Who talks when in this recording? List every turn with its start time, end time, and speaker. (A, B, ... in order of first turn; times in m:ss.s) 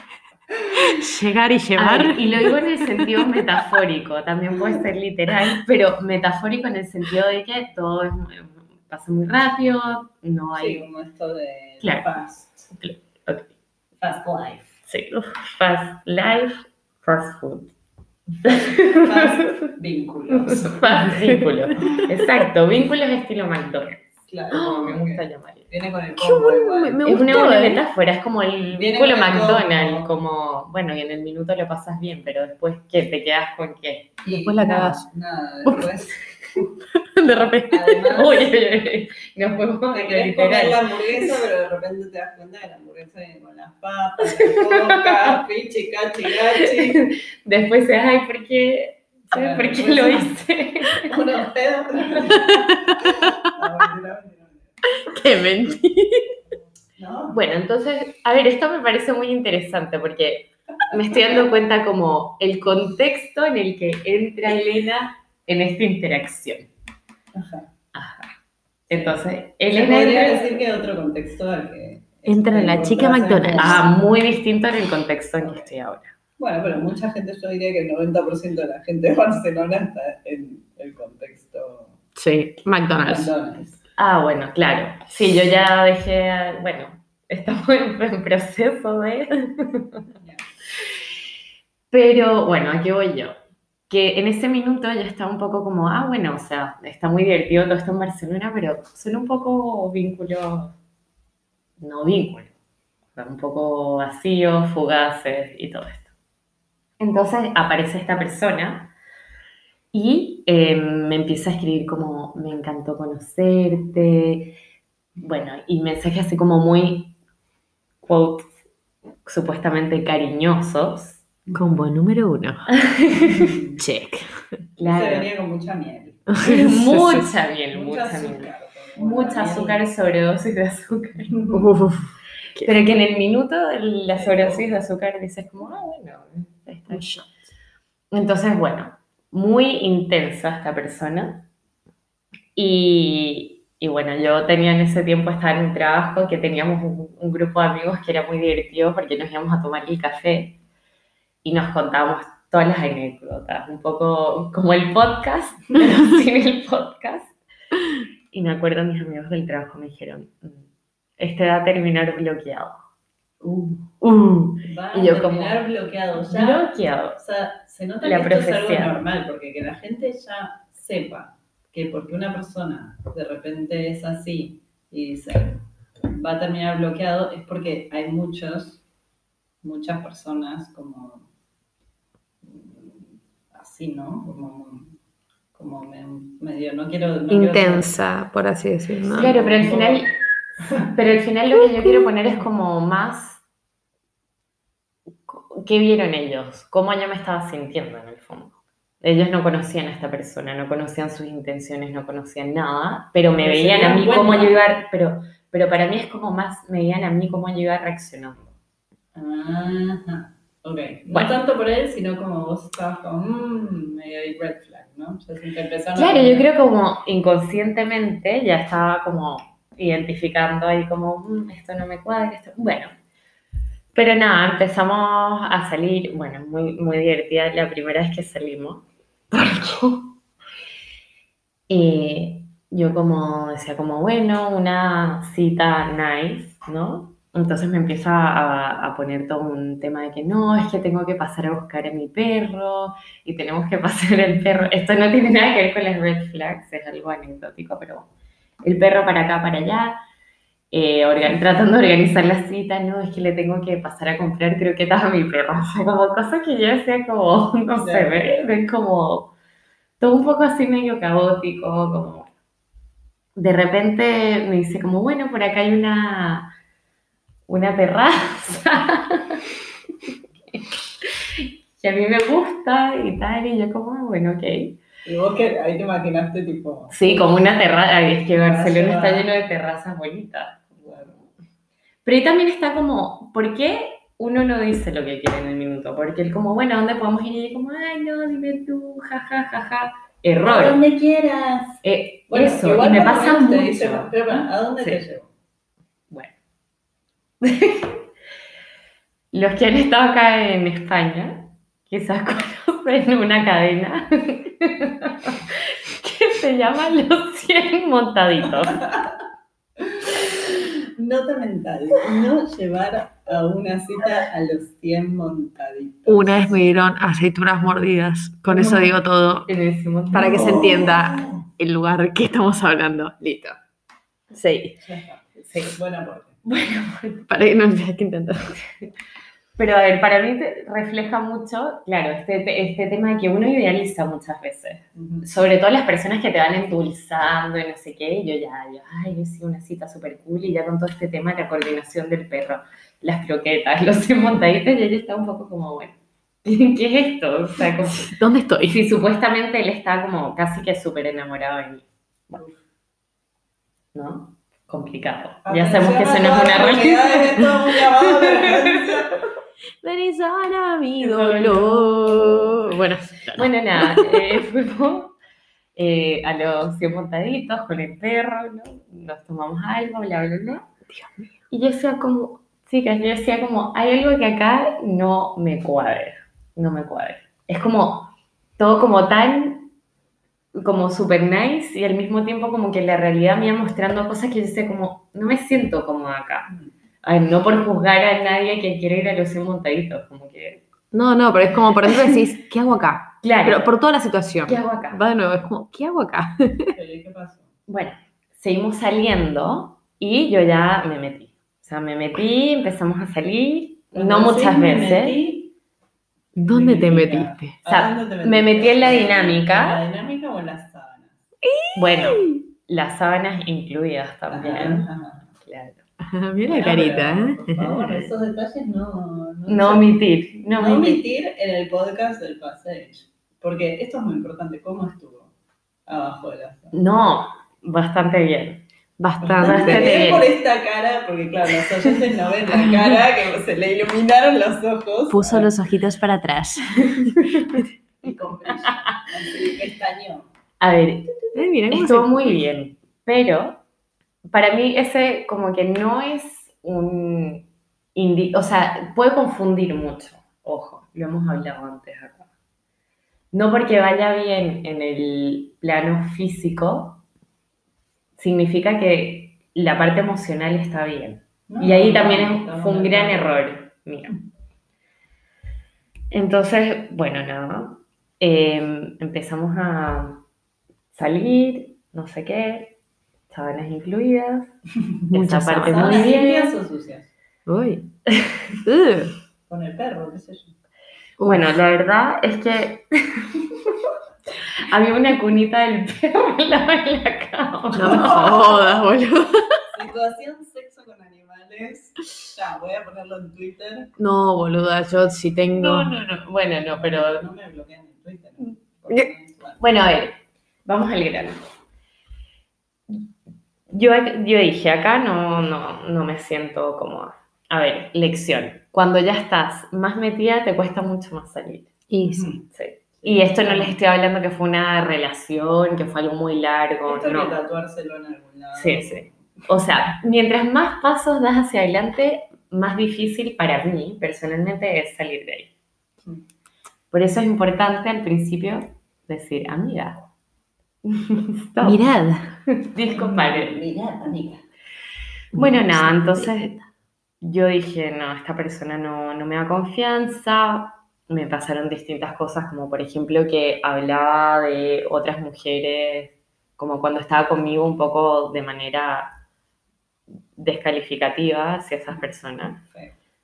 0:00.7-0:03.3 A
0:01.8-0:10.8 B
0:10.6-0:12.7 C
0:11.8-0:12.1 B
0:12.7-0:13.5 B
0:14.0-0:14.8 C
0:14.9-0:17.7 B
0:18.3-0:20.9 C
0:18.4-0:19.6 B
0:20.4-0:25.7 B
0:21.0-0:21.6 A
0:24.3-0:27.2 C
0:26.2-0:27.8 A
0:27.0-0:34.2 B
0:28.7-0:30.1 C
0:34.2-0:36.8 C
0:34.3-0:35.1 A
0:37.0-0:38.0 A
0:37.7-0:38.5 C
0:38.1-0:41.3 B
0:39.9-0:47.1 C
0:44.4-0:45.3 B
0:46.6-0:51.2 B
0:49.3-0:50.4 C
0:51.0-0:54.8 C
0:52.5-0:53.0 A
0:54.9-0:56.3 A
0:57.0-0:57.4 C
0:57.3-1:06.7 B
1:07.4-1:07.7 C
1:07.9-1:08.3 B
1:08.9-1:10.6 B
1:08.9-1:13.9 C
1:12.3-1:13.8 A
1:13.6-1:16.1 B
1:15.4-1:15.7 C
1:16.4-1:22.0 C
1:22.2-1:23.3 A
1:23.0-1:23.8 C
1:24.0-1:30.1 B
1:30.2-1:30.4 C
1:31.9-1:33.4 B
1:33.9-1:40.8 B
1:41.8-1:42.5 B
1:43.2-1:46.1 B
1:47.0-1:48.9 B
1:49.9-1:54.6 B
1:55.2-1:57.2 B
1:58.0-1:58.5 B
1:59.2-2:01.2 B
2:01.5-2:01.8 C
2:01.5-2:02.7 A
2:02.7-2:03.5 B
2:03.2-2:03.8 C
2:03.8-2:04.3 A
2:04.8-2:05.3 B
2:04.8-2:06.3 C
2:06.3-2:07.3 A
2:06.4-2:11.4 B
2:07.7-2:09.8 C
2:11.3-2:11.6 C
2:11.5-2:12.7 A
2:12.6-2:17.1 B
2:14.1-2:14.8 C
2:16.9-2:17.3 A
2:18.1-2:21.5 B
2:22.6-2:30.6 B
2:31.4-2:37.4 B
2:38.3-2:42.8 B
2:44.0-2:45.6 B
2:44.6-2:58.8 C
2:46.3-2:47.2 B
2:48.0-2:49.0 B
2:59.6-3:01.3 C
3:02.4-3:05.0 C
3:05.5-3:07.9 C
3:07.3-3:09.3 A
3:09.1-3:10.1 C
3:09.2-3:10.1 B
3:10.6-3:10.9 C
3:10.8-3:13.4 B
3:15.3-3:28.6 B
3:23.4-3:24.6 C
3:29.2-3:36.5 C
3:31.1-3:31.4 B
3:36.0-3:42.9 B
3:43.9-3:50.2 B
3:51.7-4:08.1 B
4:08.6-4:10.0 B
4:10.7-4:19.3 B
4:17.8-4:18.5 C
4:20.0-4:22.3 B
4:23.4-4:26.5 B
4:27.5-4:29.4 B
4:30.5-4:34.8 B
4:35.0-4:37.3 C
4:36.9-4:41.2 B
4:38.4-4:39.3 C
4:40.8-4:41.2 C
4:42.0-4:50.8 B
4:50.4-4:55.3 C
4:51.8-4:55.0 B
4:57.4-4:58.0 B
4:59.3-5:08.9 B
5:09.8-5:16.6 C
5:16.1-5:19.5 A
5:18.5-5:18.8 C
5:19.5-5:20.8 B
5:20.1-5:23.6 A
5:20.1-5:21.5 C
5:24.3-5:24.8 A
5:24.8-5:26.4 C
5:25.4-5:25.8 B
5:26.4-5:27.3 B
5:27.3-5:28.6 A
5:29.6-5:48.1 B
5:35.0-5:35.3 C
5:47.8-5:48.8 A
5:48.7-5:52.4 B
5:53.9-5:57.5 B
5:55.4-5:59.2 C
5:58.2-5:59.0 B
5:59.8-6:04.4 A
6:01.0-6:05.2 B
6:05.8-6:10.7 B
6:10.9-6:11.3 A
6:11.5-6:19.7 B
6:20.5-6:26.5 B
6:27.0-6:30.6 B
6:30.9-6:36.7 A
6:31.9-6:32.2 B
6:33.2-6:33.7 B
6:34.5-6:35.0 B
6:36.7-6:37.5 C
6:37.7-6:45.2 B
6:43.9-6:45.5 C
6:46.4-6:47.6 A
6:46.4-6:51.2 C
6:47.6-6:49.8 B
6:51.4-6:52.4 A
6:51.8-6:54.9 B
6:54.3-6:55.3 C
6:55.4-6:55.8 B
6:56.0-6:58.1 A
6:56.5-7:00.0 C
6:59.5-7:01.0 B
7:00.6-7:05.3 C
7:05.9-7:06.8 C
7:06.7-7:08.7 B
7:09.0-7:10.1 A
7:09.2-7:10.3 B
7:09.2-7:15.5 C
7:15.1-7:17.2 A
7:17.4-7:17.6 B
7:18.0-7:20.3 C
7:20.6-7:21.2 B
7:21.3-7:22.4 A
7:21.7-7:23.6 B
7:24.3-7:32.3 B
7:33.3-7:37.0 B
7:38.2-7:44.2 B
7:41.5-7:43.5 C
7:46.1-7:50.2 B
7:50.9-7:52.8 B
7:53.3-7:54.5 B
7:55.1-7:56.1 A
7:55.1-7:56.6 B
7:55.6-7:57.1 C
7:57.5-7:57.9 A
7:58.1-7:58.4 B
7:58.6-7:59.2 A
7:59.5-8:00.6 C
8:01.2-8:01.4 A
8:01.2-8:03.7 B
8:04.6-8:08.4 B
8:07.8-8:09.6 A
8:07.8-8:08.5 C
8:09.7-8:13.9 C
8:14.0-8:15.9 A
8:15.6-8:17.2 B
8:16.7-8:19.7 C
8:19.6-8:21.4 B
8:23.7-8:31.7 B
8:31.9-8:32.3 A
8:32.0-8:32.5 C
8:32.5-8:37.4 B
8:33.0-8:33.8 C
8:36.9-8:39.4 C
8:38.5-8:45.5 B
8:46.9-8:50.1 B
8:50.8-8:51.9 B
8:51.6-8:52.4 A
8:52.5-8:53.6 B
8:52.9-8:54.4 C
8:55.3-8:56.5 B
8:55.3-8:56.6 A
8:57.2-9:09.2 B
9:10.4-9:12.6 B
9:12.6-9:13.0 C